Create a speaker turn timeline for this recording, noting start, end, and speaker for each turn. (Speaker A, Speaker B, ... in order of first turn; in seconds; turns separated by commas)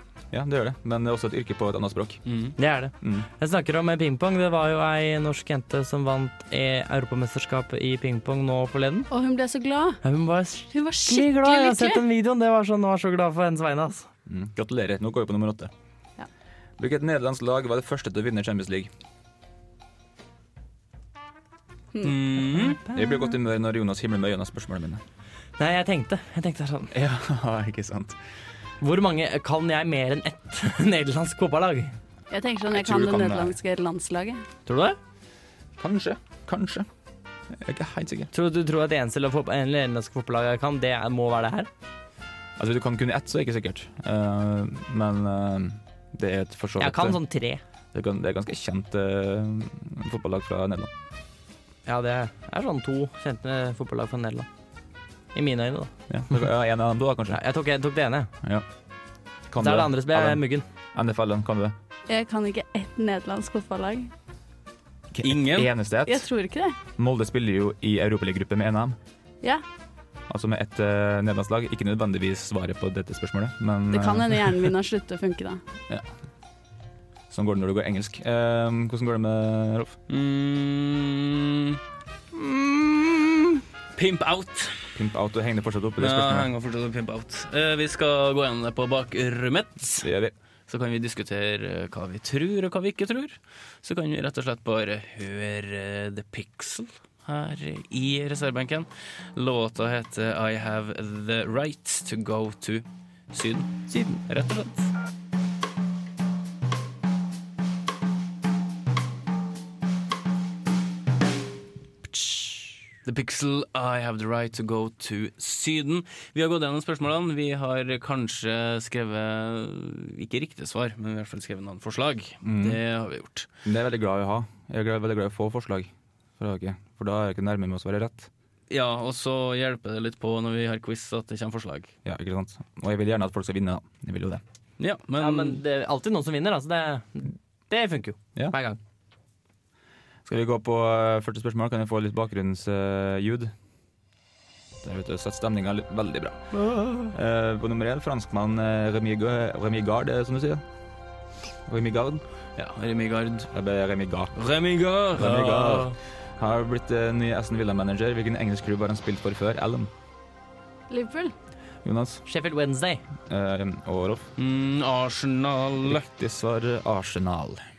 Speaker A: 0.3-2.2, Speaker B: 2.3-2.6, Speaker C: 2.6-9.1, Speaker A: 3.0-3.3, Speaker D: 9.1-10.0, Speaker C: 10.0-14.1, Speaker D: 10.7-12.0, Speaker A: 14.3-15.7, Speaker A: 16.8-18.9, Speaker B: 22.0-22.8, Speaker C: 22.5-23.3, Speaker A: 22.9-25.0, Speaker C: 25.6-26.9, Speaker A: 26.9-28.2, Speaker C: 28.8-31.9, Speaker D: 32.3-34.4, Speaker A: 32.7-33.6, Speaker C: 34.7-35.0, Speaker A: 35.8-36.9, Speaker A: 37.5-38.3, Speaker C: 38.3-41.7, Speaker A: 42.6-47.2, Speaker C: 46.8-47.6, Speaker A: 47.9-50.9, Speaker C: 51.9-54.5, Speaker C: 55.3-56.4, Speaker A: 56.1-57.4, Speaker C: 57.3-58.3, Speaker A: 59.5-60.4, Speaker C: 59.6-60.6, Speaker A: 60.9-61.8, Speaker D: 62.1-64.1, Speaker A: 65.1-66.3, Speaker B: 65.2-65.7, Speaker D: 66.0-66.8, Speaker A: 67.0-69.0, Speaker A: 70.3-74.7, Speaker D: 73.9-75.6, Speaker A: 77.3-80.0, Speaker B: 80.1-81.8, Speaker C: 82.3-83.6, Speaker B: 84.0-84.9, Speaker A: 85.0-86.5, Speaker B: 86.0-90.1, Speaker A: 90.0-90.3, Speaker B: 90.7-104.9, Speaker C: 103.9-104.2, Speaker C: 112.1-112.8, Speaker B: 113.1-123.5, Speaker A: 122.4-122.8, Speaker A: 123.7-128.3, Speaker B: 128.7-131.9, Speaker A: 132.1-134.4, Speaker B: 134.8-135.6, Speaker C: 135.2-138.8, Speaker A: 140.3-143.5, Speaker A: 144.8-146.5, Speaker C: 146.5-147.1, Speaker A: 147.1-150.6, Speaker A: 151.7-152.2, Speaker B: 152.6-153.5, Speaker A: 153.5-154.5, Speaker B: 154.4-155.9, Speaker A: 155.1-159.9, Speaker D: 160.9-161.3, Speaker A: 161.8-162.2, Speaker C: 162.3-163.0, Speaker A: 163.3-164.3, Speaker B: 164.4-166.0, Speaker A: 165.8-167.7